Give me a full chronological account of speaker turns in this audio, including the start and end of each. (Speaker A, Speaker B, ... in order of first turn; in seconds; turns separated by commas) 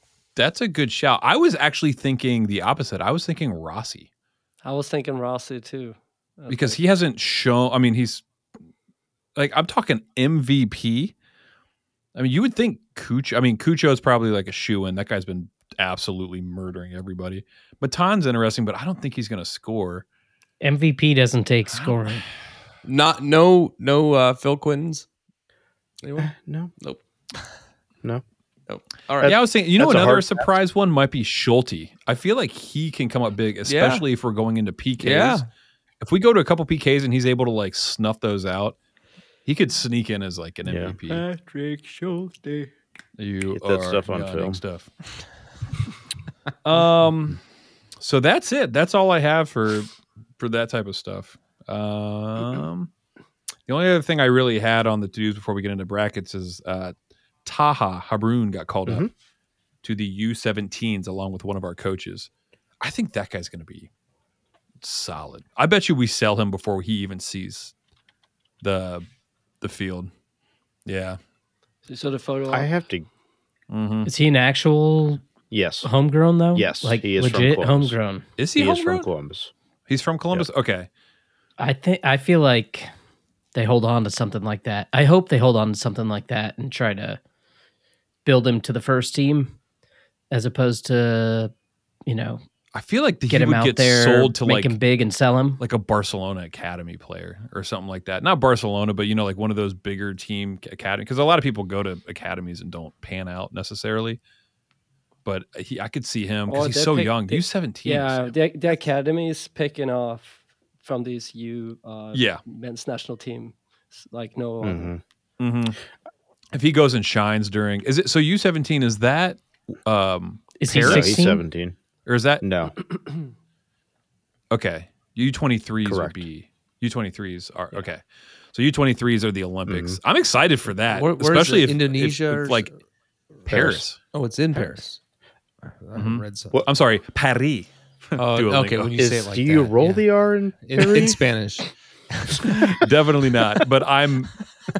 Speaker A: 0.4-4.1, Speaker B: 4.6-6.8, Speaker A: 6.5-8.2, Speaker A: 9.4-11.2, Speaker A: 12.2-20.1, Speaker C: 20.6-22.3, Speaker D: 22.9-25.1, Speaker D: 26.0-27.5, Speaker E: 26.2-26.7, Speaker D: 28.7-29.3, Speaker E: 29.2-30.5, Speaker A: 29.2-35.4, Speaker D: 33.6-34.0, Speaker D: 35.0-35.5, Speaker A: 36.0-38.8, Speaker A: 39.5-41.3, Speaker E: 40.6-41.0, Speaker B: 41.4-42.7, Speaker A: 43.2-44.9, Speaker E: 43.5-44.6, Speaker A: 46.6-47.4, Speaker A: 48.0-52.9, Speaker A: 53.7-59.1, Speaker A: 59.8-62.3, Speaker A: 62.8-63.9, Speaker A: 64.8-67.7, Speaker A: 68.6-69.1, Speaker A: 69.6-70.1, Speaker A: 70.9-71.2, Speaker B: 71.9-72.7, Speaker E: 72.5-73.1, Speaker A: 73.7-74.1, Speaker C: 74.1-75.2, Speaker E: 75.5-75.9, Speaker C: 75.8-78.3, Speaker E: 76.5-78.0, Speaker A: 78.4-79.1, Speaker E: 78.6-79.5, Speaker A: 79.9-80.9, Speaker C: 81.6-82.9, Speaker C: 83.5-87.2, Speaker C: 88.2-89.5, Speaker C: 90.3-91.5, Speaker C: 92.1-92.4, Speaker A: 92.7-94.8, Speaker C: 93.3-95.6, Speaker A: 95.6-104.2, Speaker A: 105.2-108.3, Speaker B: 106.5-114.9, Speaker A: 112.1-112.4, Speaker E: 114.6-115.0, Speaker A: 115.4-115.8, Speaker A: 116.5-121.2, Speaker C: 120.6-121.4, Speaker E: 120.8-121.8, Speaker A: 122.1-122.4, Speaker E: 122.4-122.7, Speaker A: 124.5-132.7, Speaker E: 125.8-126.2, Speaker E: 129.7-130.0, Speaker D: 130.9-132.7, Speaker A: 133.5-134.0, Speaker E: 133.5-133.8, Speaker D: 134.1-135.0, Speaker D: 135.7-136.6, Speaker A: 136.0-139.0, Speaker D: 138.2-140.1, Speaker E: 139.0-141.2, Speaker D: 140.7-142.6, Speaker A: 142.5-144.3